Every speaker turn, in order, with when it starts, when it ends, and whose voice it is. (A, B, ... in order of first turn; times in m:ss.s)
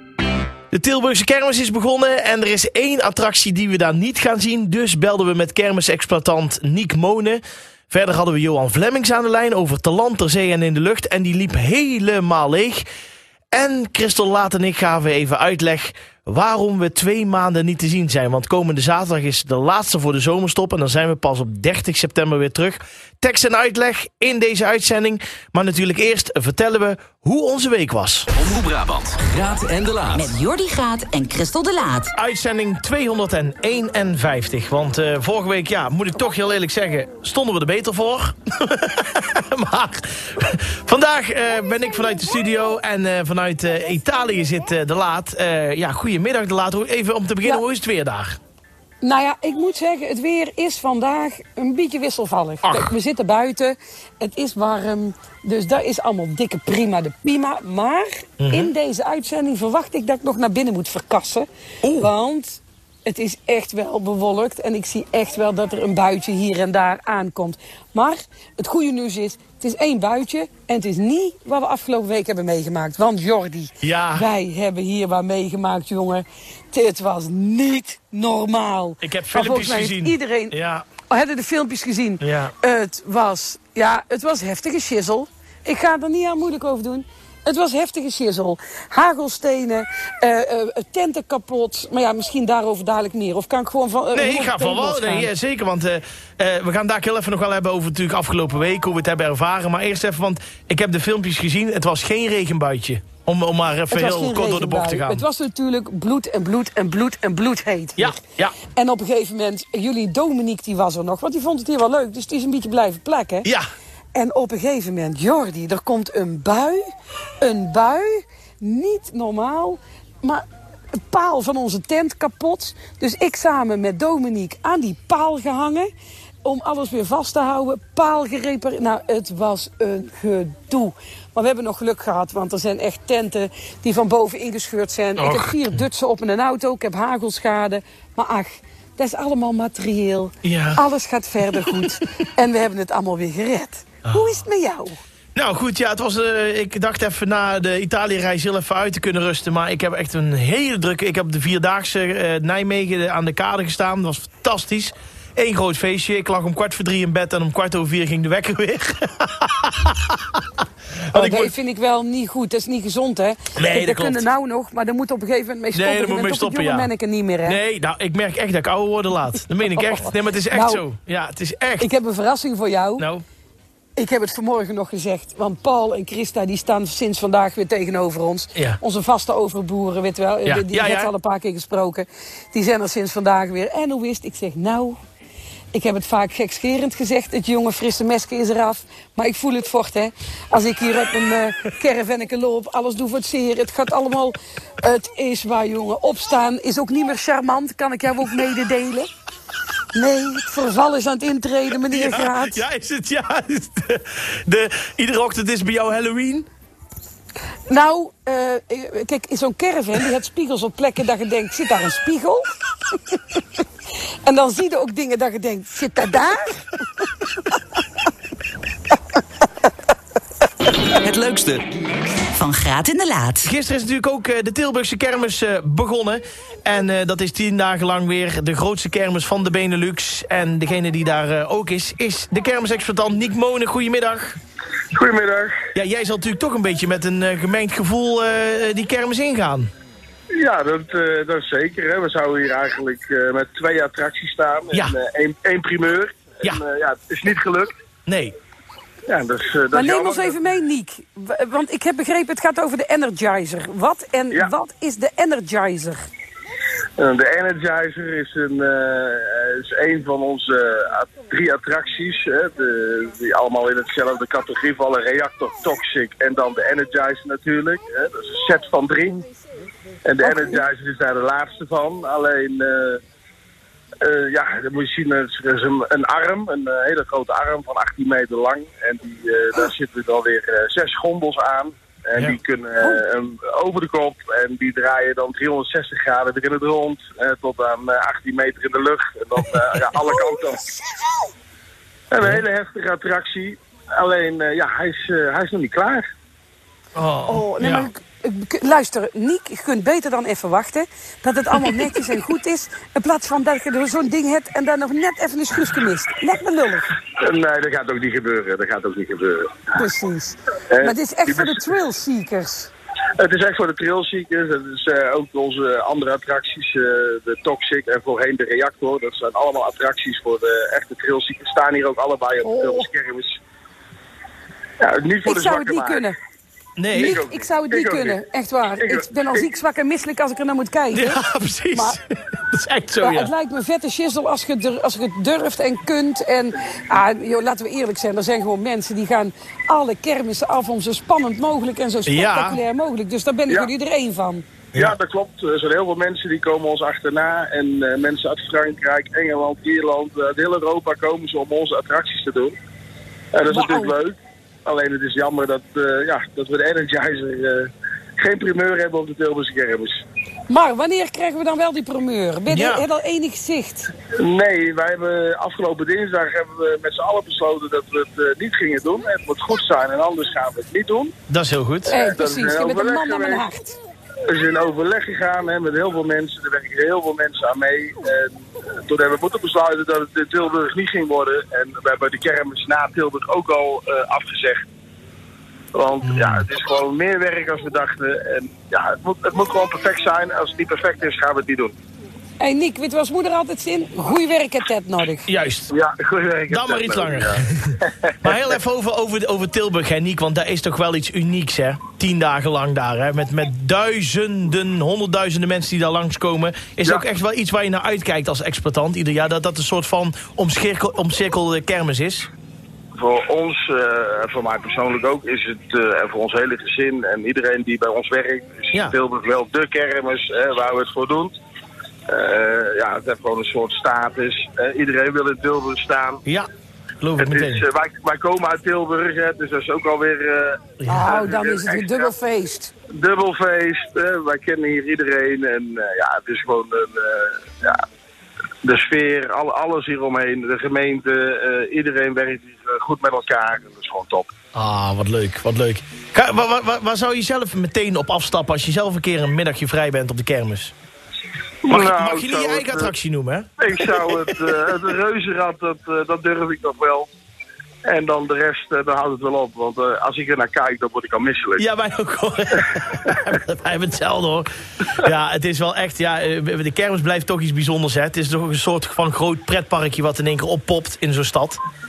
0:00.7-0:12.8 A
0:13.5-0:28.3 A
0:28.4-0:30.4 B
0:30.2-0:32.1 C
0:32.1-0:48.4 A
0:49.0-1:01.5 D
0:52.6-0:52.9 A
0:58.4-0:58.7 A
1:01.8-1:02.1 A
1:02.0-1:35.3 D
1:13.8-1:14.3 A
1:19.0-1:20.8 A
1:22.2-1:22.5 A
1:34.1-1:45.2 A
1:43.9-1:53.5 D
1:48.0-1:48.5 A
1:54.1-1:56.8 D
1:57.4-2:05.9 D
2:06.4-2:25.0 D
2:15.2-2:15.8 A
2:20.4-2:20.8 A
2:25.3-2:40.1 A
2:41.1-2:41.5 A
2:41.1-2:47.6 D
2:43.5-2:44.2 A
2:45.7-2:46.9 A
2:47.4-2:51.9 A
2:49.7-2:50.8 D
2:51.8-2:53.1 D
2:53.0-2:53.2 A
2:54.0-3:05.0 D
3:00.4-3:01.1 A
3:05.7-3:19.1 D
3:19.9-3:22.6 D
3:21.9-3:26.5 A
3:27.7-3:32.5 D
3:34.2-3:37.1 D
3:41.0-3:41.6 B
3:42.4-3:43.5 C
3:43.4-3:54.4 A
3:54.9-3:55.6 E
3:55.7-3:59.7 A
4:00.3-4:07.7 E
4:08.0-4:08.3 A
4:09.1-4:10.4 E
4:09.7-4:16.0 D
4:17.0-4:29.2 E
4:30.0-4:33.0 E
4:30.2-4:30.6 D
4:34.0-4:50.7 E
4:52.1-4:56.0 E
4:57.0-4:57.9 A
4:57.3-5:06.9 D
5:07.2-5:09.6 E
5:09.8-5:12.7 D
5:10.7-5:11.6 E
5:13.2-5:23.4 E
5:22.4-5:22.9 D
5:24.8-5:26.1 E
5:25.2-5:26.1 D
5:26.8-5:27.2 A
5:26.9-5:32.0 D
5:27.0-5:28.2 E
5:28.8-5:29.4 E
5:30.9-5:33.3 A
5:33.0-5:44.4 D
5:42.0-5:42.6 A
5:44.8-5:52.6 E
5:53.3-6:00.0 E
5:53.5-5:54.0 D
6:00.5-6:03.9 D
6:02.5-6:02.8 A
6:04.2-6:11.1 E
6:11.3-6:11.9 A
6:11.9-6:13.5 E
6:11.9-6:13.8 D
6:14.3-6:24.6 E
6:25.7-6:31.7 E
6:26.0-6:26.4 A
6:32.4-6:35.3 D
6:35.3-6:35.7 A
6:35.7-6:38.3 E
6:36.5-6:52.3 A
6:53.0-7:01.3 E
7:02.1-7:06.2 E
7:07.0-7:07.6 A
7:07.2-7:12.1 E
7:10.8-7:11.1 A
7:10.9-7:12.7 D
7:12.9-7:17.8 E
7:18.6-7:24.3 E
7:24.5-7:30.7 A
7:31.6-7:32.9 E
7:31.7-7:34.3 A
7:33.6-7:37.1 E
7:37.8-7:41.6 E
7:41.6-7:51.6 A